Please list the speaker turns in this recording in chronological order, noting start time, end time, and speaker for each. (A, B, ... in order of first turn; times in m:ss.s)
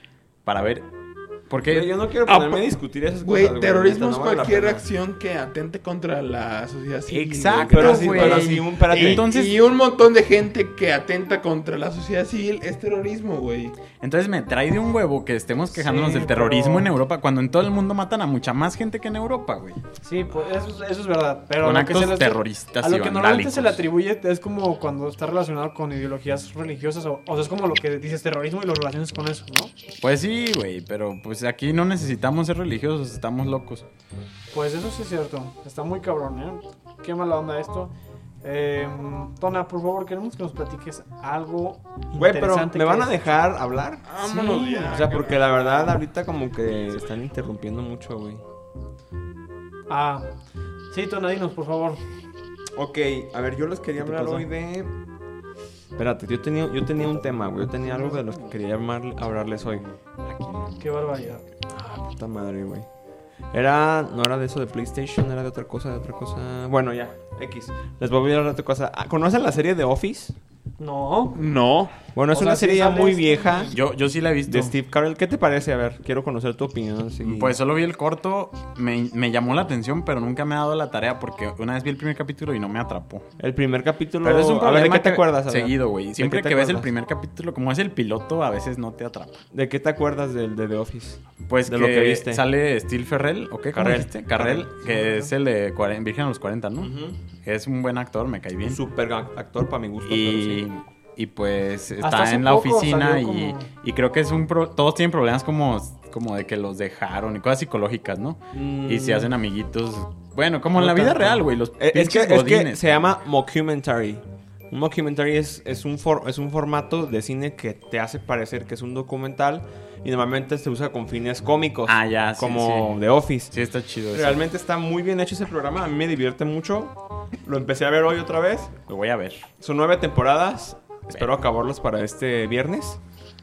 0:00.4-0:00.9 A
0:01.5-0:01.9 A
0:01.7-0:04.8 B
0:02.3-0:02.6 C
0:03.2-0:13.7 C
0:07.1-0:09.6 A
0:07.6-0:09.2 B
0:14.0-0:19.8 A
0:15.7-0:16.9 D
0:20.0-0:29.7 D
0:21.6-0:23.8 A
0:30.0-0:33.8 A
0:34.5-0:37.9 D
0:38.4-0:43.4 D
0:42.2-0:44.0 B
0:44.1-0:46.0 C
0:44.2-0:44.9 D
0:44.8-0:48.4 B
0:49.9-0:50.3 D
0:50.9-0:52.0 D
0:52.7-0:54.9 B
0:54.0-0:54.4 A
0:56.0-0:59.8 B
1:00.2-1:00.8 A
1:00.8-1:01.4 D
1:01.7-1:02.9 B
1:03.5-1:10.4 B
1:10.8-1:11.4 D
1:11.3-1:11.9 C
1:12.1-1:13.8 B
1:12.3-1:13.7 D
1:13.7-1:14.7 A
1:14.5-1:17.5 B
1:17.2-1:23.3 A
1:23.4-1:26.9 B
1:24.2-1:29.4 A
1:29.5-1:32.4 B
1:31.5-1:38.8 A
1:33.7-1:34.7 B
1:34.8-1:35.3 D
1:36.8-1:37.2 B
1:38.6-1:40.6 B
1:40.0-1:52.8 A
1:42.0-1:43.7 D
1:48.5-1:49.3 B
1:50.7-2:03.5 B
2:01.9-2:04.4 A
2:04.1-2:08.8 B
2:08.9-2:09.4 A
2:09.6-2:13.0 B